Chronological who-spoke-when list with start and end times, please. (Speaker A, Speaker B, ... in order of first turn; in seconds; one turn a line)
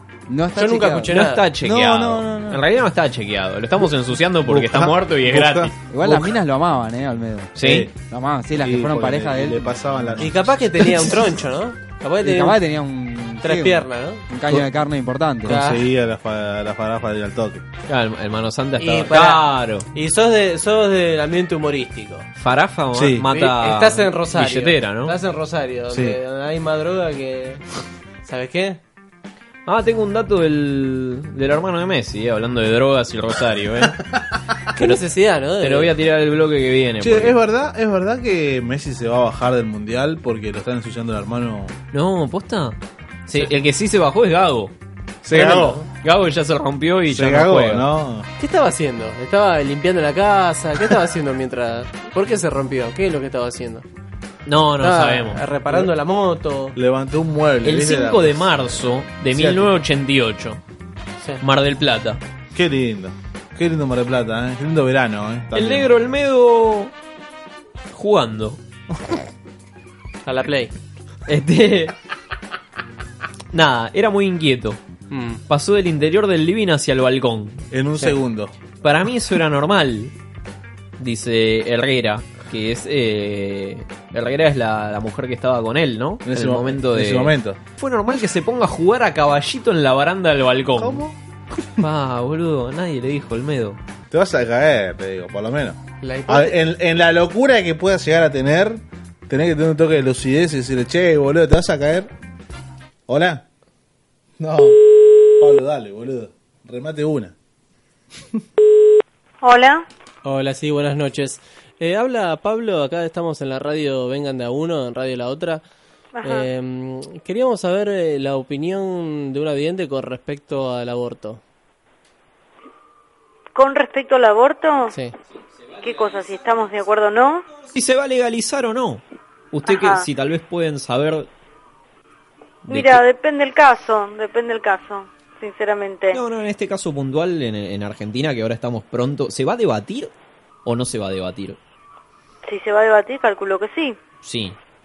Speaker A: 0.3-2.6
Speaker B: 0.5-1.5
Speaker C: 1.1-5.7
Speaker D: 4.5-6.3
Speaker A: 5.9-9.7
Speaker C: 7.5-7.9
Speaker D: 7.6-8.0
Speaker D: 8.6-11.0
Speaker B: 10.2-12.6
Speaker A: 12.2-15.6
Speaker B: 13.4-14.2
Speaker D: 15.4-17.6
Speaker B: 15.5-15.8
Speaker C: 17.9-19.9
Speaker B: 18.8-22.3
Speaker C: 22.4-25.2
Speaker D: 22.9-23.3
Speaker B: 23.3-27.6
Speaker D: 25.9-26.2
Speaker B: 28.2-28.8
Speaker C: 29.7-34.0
Speaker B: 34.8-35.9
Speaker C: 35.6-37.4
Speaker D: 37.0-41.7
Speaker C: 41.9-44.7
Speaker D: 45.2-45.8
Speaker C: 45.3-47.9
Speaker D: 47.1-48.3
Speaker B: 48.4-53.9
Speaker C: 54.5-55.4
Speaker B: 54.8-56.8
Speaker D: 56.8-58.8
Speaker C: 57.6-60.6
Speaker D: 59.3-59.8
Speaker C: 61.4-62.2
Speaker D: 62.5-65.9
Speaker C: 65.5-66.9
Speaker C: 67.9-68.6
Speaker B: 70.2-70.7
Speaker C: 71.3-71.9
Speaker C: 73.5-74.8
Speaker B: 75.1-75.4
Speaker C: 75.5-77.7
Speaker D: 77.7-78.5
Speaker C: 78.8-80.1
Speaker C: 81.0-91.0
Speaker D: 86.2-87.6
Speaker D: 90.8-91.2
Speaker C: 91.8-93.8
Speaker D: 94.1-102.1
Speaker B: 96.0-96.6
Speaker D: 103.1-103.4
Speaker D: 104.4-107.3
Speaker E: 109.4-109.8
Speaker B: 110.2-115.6
Speaker E: 116.2-116.5
Speaker B: 116.2-121.4
Speaker E: 123.5-125.0
Speaker E: 125.8-127.5
Speaker C: 127.7-131.3
Speaker E: 129.7-130.1
Speaker C: 132.7-133.0
Speaker E: 132.7-136.2
Speaker C: 136.1-140.1
Speaker C: 140.7-141.6
Speaker E: 142.5-144.0
Speaker C: 144.2-144.6